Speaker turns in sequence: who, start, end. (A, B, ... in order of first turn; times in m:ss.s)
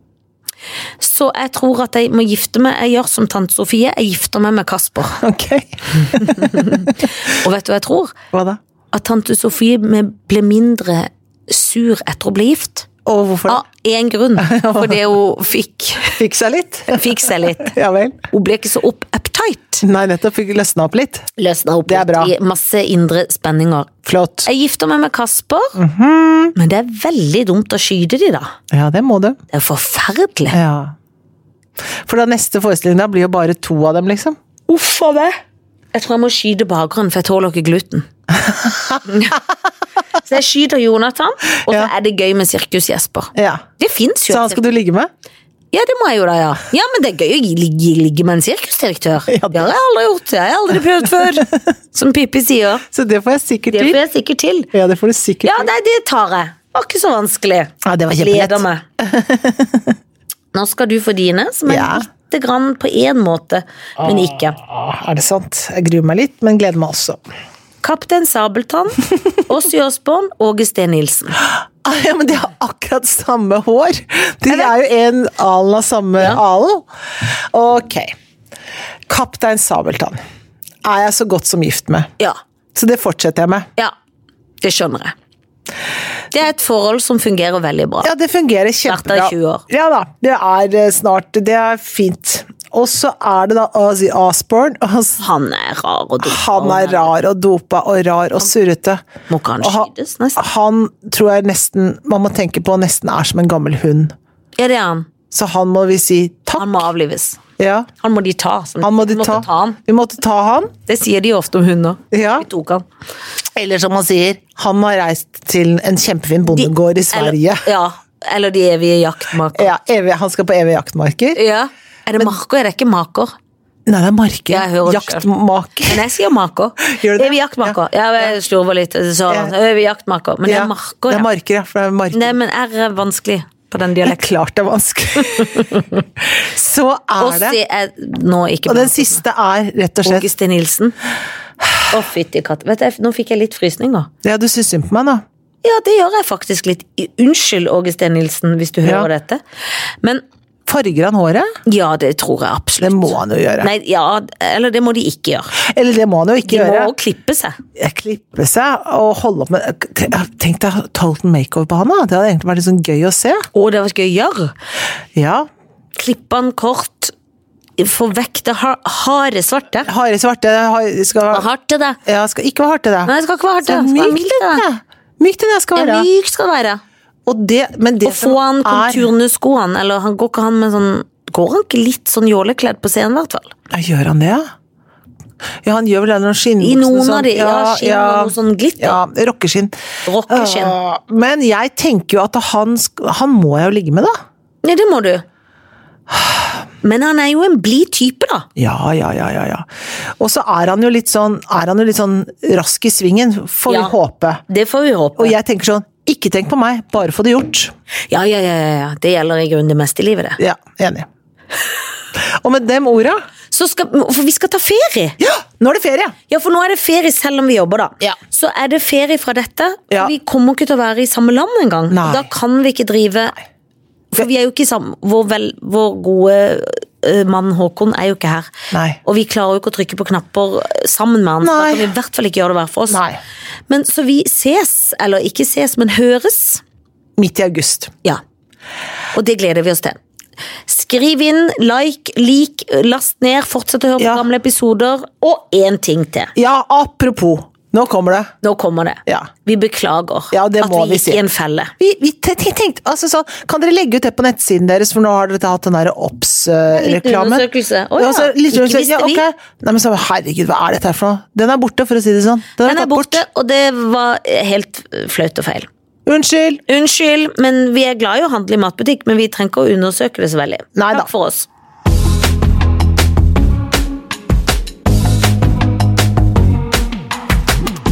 0:01.0-0:05.2 A
0:05.2-0:07.0 B
0:06.1-0:08.2 A
0:08.3-0:08.6 B
0:08.9-0:12.9 A
0:13.0-0:13.6 B
0:13.5-0:16.2 A
0:14.4-0:15.1 B
0:16.1-0:18.2 B
0:16.9-0:17.7 A
0:18.3-0:19.8 A
0:19.8-0:21.3 B
0:21.4-0:23.9 A
0:21.9-0:22.3 B
0:24.0-0:24.5 B
0:24.4-0:25.8 A
0:25.8-0:26.5 B
0:26.6-0:28.6 A
0:28.7-0:29.4 B
0:29.5-0:30.6 A
0:30.5-0:30.9 B
0:31.9-0:34.4 B
0:34.7-0:35.4 A
0:35.9-0:38.1 A
0:38.4-0:39.0 B
0:39.1-0:39.4 A
0:40.2-0:44.6 A
0:43.4-0:43.6 B
0:44.3-0:45.1 B
0:45.7-0:52.8 A
0:49.3-0:49.7 B
0:51.0-0:51.5 B
0:52.9-0:54.0 B
0:53.7-0:54.7 A
0:54.7-0:55.7 B
0:55.4-0:58.8 A
0:57.8-1:00.0 B
1:00.5-1:04.6 A
1:01.7-1:02.1 B
1:04.0-1:07.2 B
1:07.8-1:11.4 A
1:11.4-1:18.1 B
1:19.1-1:20.2 B
1:20.8-1:22.1 B
1:22.8-1:23.7 B
1:24.6-1:25.1 A
1:26.3-1:28.1 A
1:28.0-1:35.2 B
1:28.8-1:29.6 A
1:35.2-1:37.1 A
1:36.2-1:39.0 B
1:39.3-1:40.4 A
1:39.6-1:44.1 B
1:44.6-1:45.1 A
1:45.3-1:46.8 B
1:46.6-1:47.4 A
1:47.6-1:47.9 B
1:48.0-1:49.8 A
1:48.8-1:50.7 B
1:50.9-1:52.8 A
1:52.1-1:52.5 B
1:53.6-1:57.7 B
1:56.5-1:59.7 A
1:59.5-2:01.4 B
2:01.4-2:03.3 A
2:03.9-2:06.0 B
2:04.5-2:05.3 A
2:05.9-2:11.3 A
2:06.9-2:08.3 B
2:09.3-2:09.5 B
2:10.5-2:12.4 B
2:12.1-2:14.2 A
2:14.0-2:17.6 B
2:15.2-2:16.0 A
2:17.2-2:19.2 A
2:18.7-2:20.3 B
2:20.0-2:21.0 A
2:21.9-2:24.1 A
2:24.2-2:25.2 B
2:25.6-2:29.4 A
2:28.8-2:29.1 B
2:30.7-2:31.5 B
2:31.7-2:35.6 A
2:32.8-2:33.7 B
2:35.6-2:36.9 B
2:36.4-2:37.6 A
2:37.8-2:43.5 B
2:43.5-2:44.5 A
2:45.2-2:45.5 B
2:46.0-2:47.1 A
2:47.8-2:49.9 A
2:49.9-2:51.5 B
2:51.3-2:52.0 A
2:52.0-2:53.1 B
2:53.1-2:54.6 A
2:53.6-2:56.1 B
2:55.8-2:56.8 A
2:57.3-2:59.1 B
2:58.0-3:03.5 A
3:03.7-3:04.5 B
3:05.6-3:09.7 B
3:06.6-3:09.0 A
3:10.1-3:10.8 A
3:10.3-3:14.1 B
3:14.6-3:15.2 A
3:16.1-3:16.4 B
3:16.8-3:18.5 A
3:18.6-3:19.7 B
3:20.2-3:24.4 B
3:23.7-3:23.9 A
3:24.5-3:25.4 A
3:25.2-3:27.7 B
3:28.1-3:30.4 A
3:30.4-3:31.1 B
3:32.2-3:33.2 B
3:33.5-3:35.2 A
3:35.2-3:36.2 B
3:36.3-3:43.4 A
3:41.9-3:42.3 B
3:44.1-3:48.5 A
3:48.7-3:49.0 B
3:49.0-3:53.0 A
3:51.4-3:51.9 B
3:52.9-3:53.2 B
3:53.7-3:56.6 A
3:57.2-3:57.9 B
3:59.1-4:00.0 A
4:00.7-4:06.3 A
4:04.0-4:04.2 B
4:06.4-4:08.3 B
4:08.4-4:11.7 A
4:10.3-4:11.2 B
4:11.8-4:23.2 B
4:16.7-4:19.2 A
4:22.6-4:25.7 A
4:26.1-4:26.6 B
4:26.7-4:31.5 A
4:30.8-4:31.1 B